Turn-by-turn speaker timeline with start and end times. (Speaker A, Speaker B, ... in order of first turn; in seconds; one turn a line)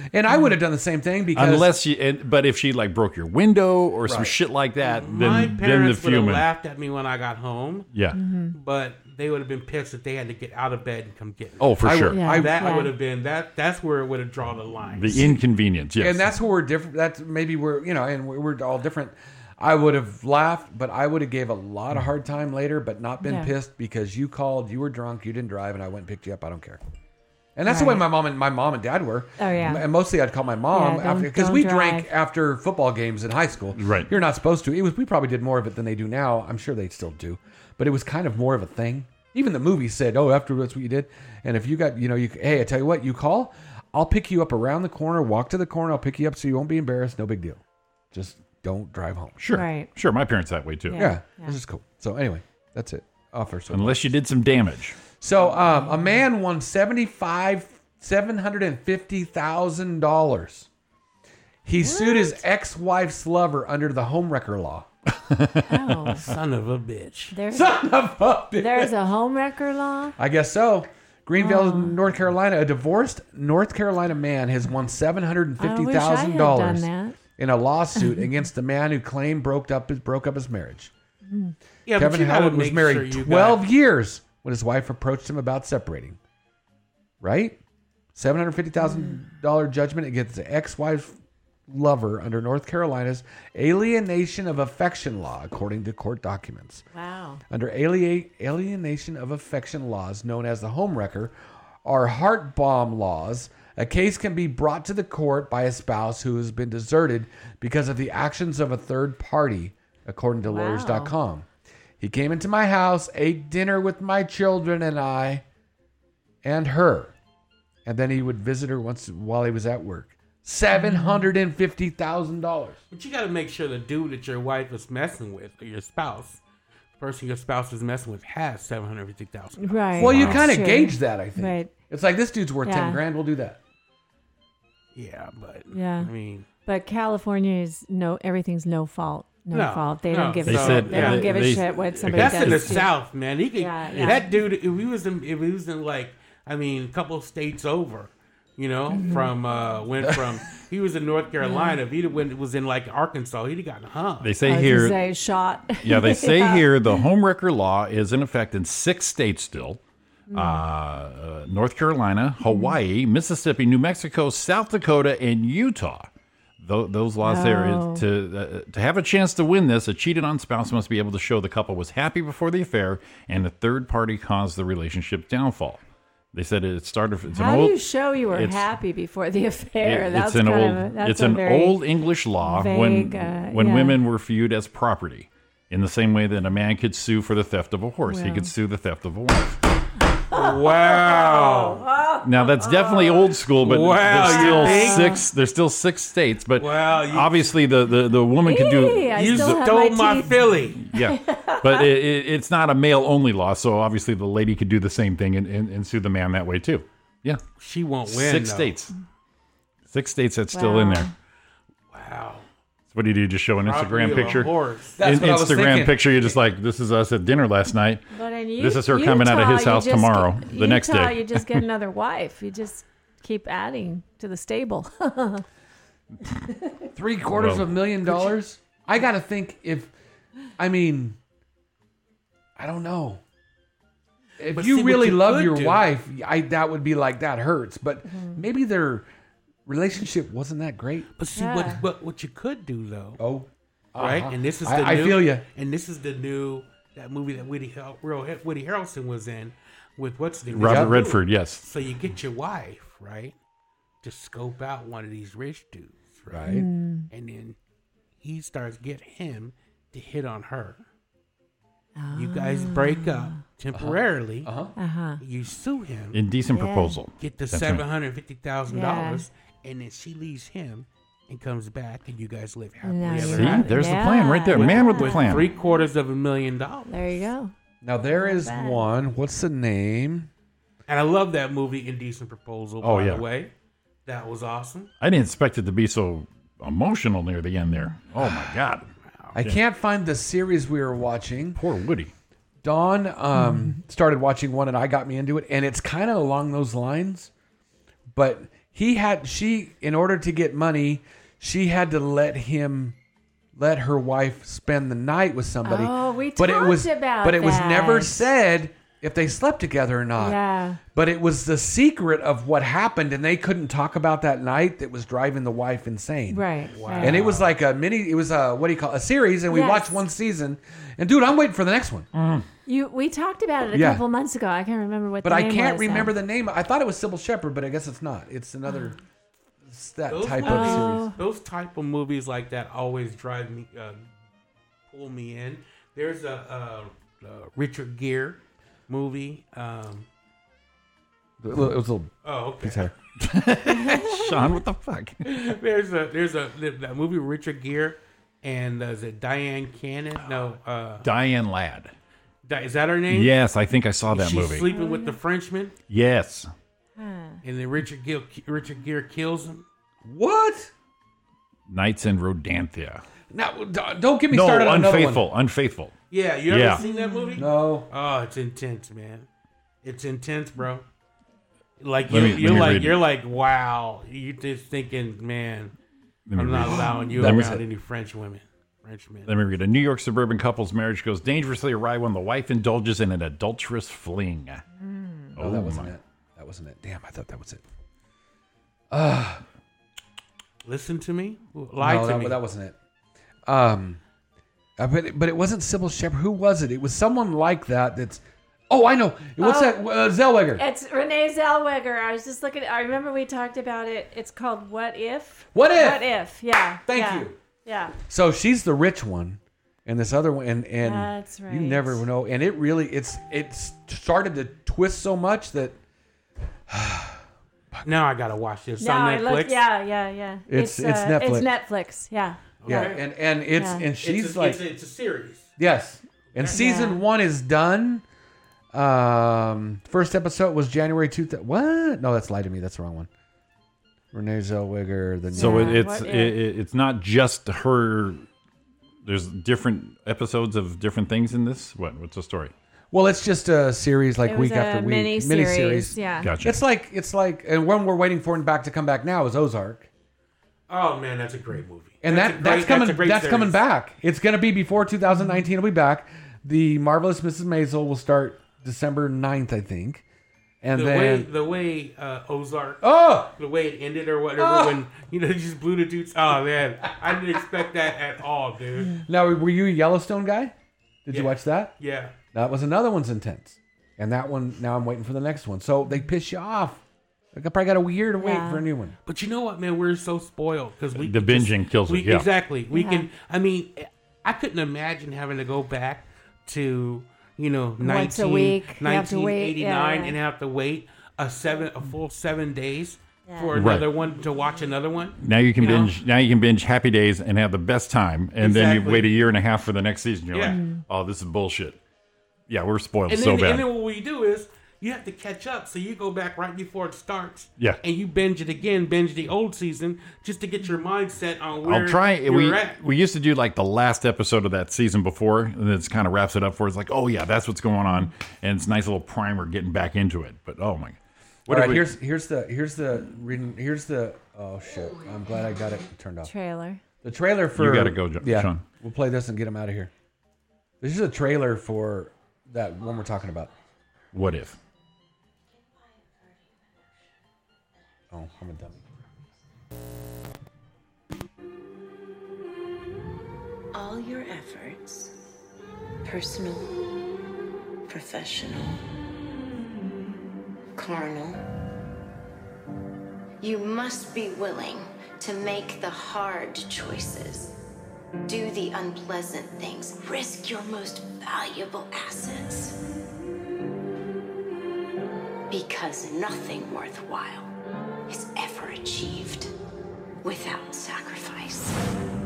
Speaker A: 0.1-1.7
Speaker B: 1.3-6.5
Speaker A: 4.0-4.3
Speaker C: 4.8-7.9
Speaker D: 8.1-8.5
Speaker C: 8.5-15.2
Speaker B: 11.6-12.2
Speaker A: 11.8-12.7
Speaker D: 12.1-12.9
Speaker B: 15.0-16.3
Speaker A: 16.0-26.8
Speaker D: 23.2-23.5
Speaker A: 27.6-49.4
Speaker D: 27.6-28.0
Speaker D: 29.4-29.9
Speaker D: 30.7-32.1
Speaker B: 33.7-34.1
Speaker B: 49.4-51.0
Speaker D: 49.5-49.9
Speaker D: 50.9-51.6
Speaker A: 50.9-54.1
Speaker B: 53.7-55.0
Speaker A: 55.2-60.7
Speaker D: 55.7-56.1
Speaker A: 61.6-64.9
Speaker D: 61.8-62.4
Speaker B: 65.3-65.8
Speaker D: 65.7-66.2
Speaker C: 66.1-67.3
Speaker D: 67.3-67.9
Speaker A: 67.5-68.9
Speaker D: 68.5-70.1
Speaker A: 70.2-80.9
Speaker D: 71.4-72.0
Speaker D: 75.6-77.2
Speaker D: 78.0-78.2
Speaker D: 81.2-81.5
Speaker C: 81.9-83.7
Speaker A: 81.9-86.2
Speaker A: 87.2-87.6
Speaker A: 88.1-91.2
Speaker D: 88.8-89.2
Speaker A: 91.7-96.8
Speaker D: 96.9-97.4
Speaker A: 97.5-101.3
Speaker A: 101.8-111.5
Speaker D: 110.4-111.1
Speaker A: 112.0-115.4
Speaker A: 116.4-117.1
Speaker A: 117.8-122.8
Speaker D: 120.7-121.3
Speaker C: 122.9-126.4
Speaker C: 127.0-130.4
Speaker D: 129.6-131.7
Speaker A: 130.0-133.6
Speaker B: 130.0-130.5
Speaker D: 132.6-133.0
Speaker C: 134.9-136.5
Speaker D: 135.7-136.1
Speaker D: 136.7-143.0
Speaker C: 139.5-141.6
Speaker B: 140.4-142.8
Speaker C: 142.1-154.3
Speaker D: 143.6-144.3
Speaker D: 148.9-149.3
Speaker D: 151.4-151.8
Speaker B: 154.2-155.0
Speaker D: 154.4-157.0
Speaker B: 155.8-159.8
Speaker D: 160.3-160.6
Speaker B: 160.3-166.1
Speaker D: 162.4-162.8
Speaker B: 166.6-175.8
Speaker D: 167.2-168.0
Speaker B: 176.3-178.7
Speaker D: 177.3-181.8
Speaker B: 179.8-189.6
Speaker D: 182.4-184.0
Speaker D: 188.1-188.5
Speaker D: 190.3-193.4
Speaker C: 190.3-191.8
Speaker B: 192.2-199.6
Speaker C: 193.6-195.1
Speaker D: 194.1-195.3
Speaker C: 196.6-197.4
Speaker D: 198.4-201.9
Speaker C: 199.1-200.8
Speaker B: 200.8-207.4
Speaker C: 207.6-208.7
Speaker B: 208.1-208.9
Speaker B: 209.9-211.1
Speaker D: 210.5-211.1
Speaker C: 211.9-212.4
Speaker B: 212.9-218.0
Speaker C: 213.6-215.0
Speaker A: 215.0-216.1
Speaker D: 218.1-225.4
Speaker B: 218.6-221.6
Speaker D: 226.5-226.9
Speaker A: 226.9-229.9
Speaker B: 227.3-227.7
Speaker A: 230.6-231.2
Speaker A: 232.6-233.2
Speaker A: 234.4-239.1
Speaker C: 234.5-235.8
Speaker D: 238.1-238.4
Speaker A: 239.7-241.1
Speaker C: 241.2-243.2
Speaker D: 241.3-241.8
Speaker A: 243.2-245.4
Speaker C: 244.0-253.3
Speaker B: 250.5-251.6
Speaker A: 250.6-251.0
Speaker C: 254.0-256.5
Speaker A: 256.3-256.7
Speaker D: 256.4-257.1
Speaker C: 257.1-257.6
Speaker C: 258.2-260.8
Speaker D: 261.9-263.4
Speaker C: 262.1-264.5
Speaker A: 263.7-264.7
Speaker D: 264.8-265.2
Speaker C: 265.2-266.2
Speaker B: 266.1-267.8
Speaker D: 266.5-267.0
Speaker C: 267.2-273.7
Speaker D: 268.7-269.2
Speaker D: 272.8-275.8
Speaker B: 273.2-275.5
Speaker C: 274.5-277.0
Speaker D: 276.9-277.5
Speaker A: 277.8-280.3
Speaker D: 278.1-278.9
Speaker C: 280.9-283.5
Speaker B: 282.8-283.2
Speaker C: 284.1-284.9
Speaker B: 285.0-289.6
Speaker D: 287.6-287.9
Speaker C: 289.1-289.3
Speaker A: 289.3-291.6
Speaker B: 291.6-292.1
Speaker A: 292.6-297.3
Speaker D: 293.3-293.8
Speaker A: 298.1-302.9
Speaker A: 303.5-310.4
Speaker D: 305.6-308.2
Speaker D: 310.2-310.8
Speaker A: 310.9-316.4
Speaker D: 316.3-317.2
Speaker C: 316.7-317.5
Speaker A: 317.0-322.1
Speaker D: 319.5-320.0
Speaker B: 322.1-322.4
Speaker D: 322.6-326.1
Speaker A: 323.7-324.0
Speaker A: 325.2-329.0
Speaker A: 329.6-331.1
Speaker C: 330.1-334.1
Speaker D: 330.4-331.1
Speaker C: 334.9-340.1
Speaker A: 341.4-342.9
Speaker C: 342.2-342.9
Speaker B: 343.2-345.2
Speaker D: 343.7-344.5
Speaker C: 345.2-351.1
Speaker B: 351.0-351.9
Speaker C: 352.4-353.4
Speaker B: 353.1-354.7
Speaker C: 354.1-355.7
Speaker D: 354.7-355.2
Speaker B: 355.9-356.5
Speaker D: 357.0-357.4
Speaker C: 357.4-359.6
Speaker A: 360.0-360.7
Speaker B: 361.7-363.0
Speaker A: 363.3-365.3
Speaker B: 364.3-365.9
Speaker C: 366.1-369.3
Speaker B: 366.5-366.8
Speaker D: 366.8-367.5
Speaker A: 367.3-367.9
Speaker C: 369.8-370.8
Speaker C: 371.8-375.7
Speaker B: 372.1-373.0
Speaker B: 376.3-377.6
Speaker C: 376.4-379.3
Speaker A: 377.1-377.6
Speaker B: 379.3-384.6
Speaker D: 384.8-385.3
Speaker B: 385.4-385.9
Speaker A: 385.4-387.6
Speaker A: 388.9-389.4
Speaker C: 390.6-392.4
Speaker A: 391.8-392.8
Speaker A: 393.4-394.0
Speaker A: 394.8-400.6
Speaker D: 399.4-399.9
Speaker D: 400.6-407.9
Speaker A: 405.5-406.1
Speaker A: 406.9-407.4
Speaker A: 408.1-415.8
Speaker D: 410.8-412.0
Speaker A: 416.7-417.2
Speaker C: 417.8-419.6
Speaker D: 418.8-422.4
Speaker A: 420.5-421.5
Speaker C: 422.6-423.0
Speaker A: 422.6-424.6
Speaker D: 423.5-423.9
Speaker C: 423.9-425.6
Speaker A: 425.6-428.0
Speaker C: 426.3-426.6
Speaker D: 426.5-427.0
Speaker A: 428.7-433.1
Speaker A: 434.1-435.8
Speaker D: 435.3-436.4
Speaker B: 435.3-438.2
Speaker B: 439.0-442.5
Speaker A: 442.9-449.9
Speaker D: 444.2-446.3
Speaker B: 446.2-446.6
Speaker C: 450.7-453.6
Speaker A: 452.0-460.0
Speaker A: 460.6-461.3
Speaker C: 460.7-468.9
Speaker A: 462.8-463.3
Speaker A: 464.4-464.8
Speaker A: 466.8-467.1
Speaker D: 468.8-469.1
Speaker A: 469.0-470.5
Speaker A: 471.0-471.7
Speaker C: 471.1-472.1
Speaker A: 472.3-476.8
Speaker A: 477.3-478.9
Speaker D: 478.2-478.6
Speaker C: 479.1-495.9
Speaker B: 481.0-482.3
Speaker D: 482.7-483.1
Speaker D: 487.8-490.1
Speaker D: 493.2-493.8
Speaker B: 493.5-493.9
Speaker B: 495.2-501.8
Speaker C: 498.4-499.1
Speaker C: 500.3-500.6
Speaker D: 500.5-500.8
Speaker B: 502.5-503.7
Speaker C: 503.1-512.8
Speaker B: 511.6-521.9
Speaker A: 521.5-526.3
Speaker D: 526.2-526.8
Speaker A: 527.0-529.9
Speaker B: 527.5-528.6
Speaker A: 530.8-533.5
Speaker B: 534.1-534.6
Speaker A: 538.1-538.8
Speaker E: 543.7-545.1
Speaker E: 546.0-546.8
Speaker E: 547.9-548.8
Speaker E: 550.8-551.4
Speaker E: 553.4-557.5
Speaker E: 558.2-562.8
Speaker E: 565.5-567.5
Speaker E: 568.1-569.5
Speaker E: 570.2-571.8